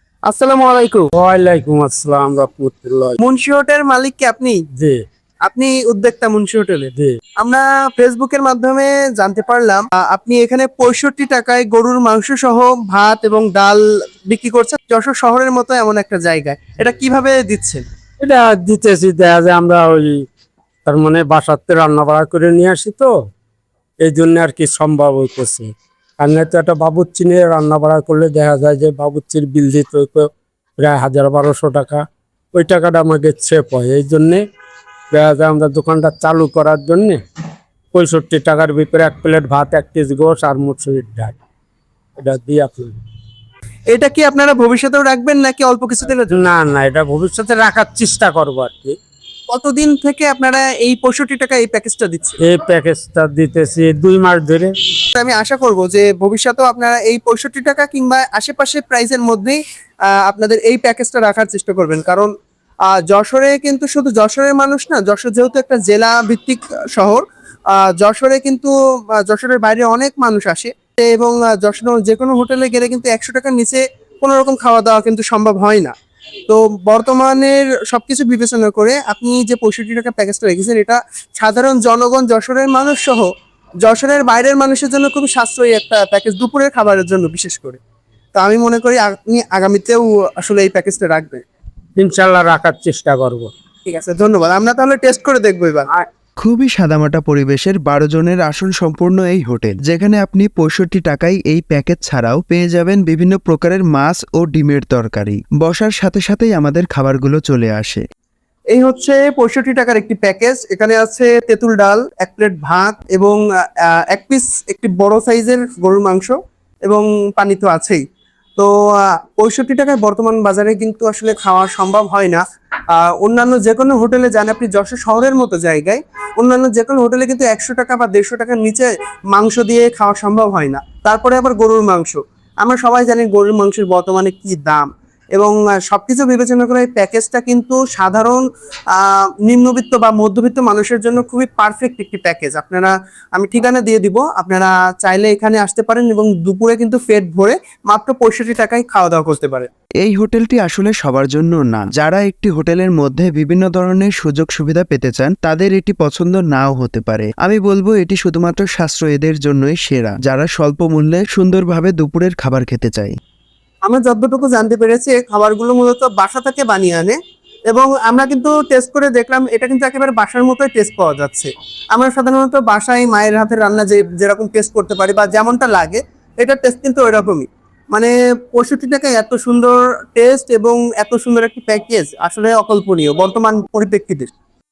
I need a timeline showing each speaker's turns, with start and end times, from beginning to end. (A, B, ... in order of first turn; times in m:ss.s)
0:00.3-0:01.1 A
0:01.1-0:03.2 B
0:03.2-0:04.6 A
0:04.8-0:05.0 B
0:05.5-0:17.8 A
0:18.2-0:20.3 B
0:20.9-0:23.2 B
0:24.0-0:34.4 B
0:35.1-0:37.2 B
0:37.9-0:41.4 B
0:42.2-0:43.0 B
0:43.9-0:46.4 A
0:46.2-0:49.0 B
0:49.5-0:52.4 A
0:52.4-0:54.7 B
0:55.1-1:02.3 A
1:02.9-1:15.9 A
1:16.5-1:23.3 A
1:23.8-1:27.8 A
1:28.4-1:31.4 A
1:32.0-1:33.5 B
1:33.9-1:35.9 A
1:36.4-1:48.0 C
1:48.7-1:58.0 A
1:58.6-2:29.7 A
2:30.0-2:43.2 C
2:43.8-2:47.2 A
2:47.7-3:04.3 A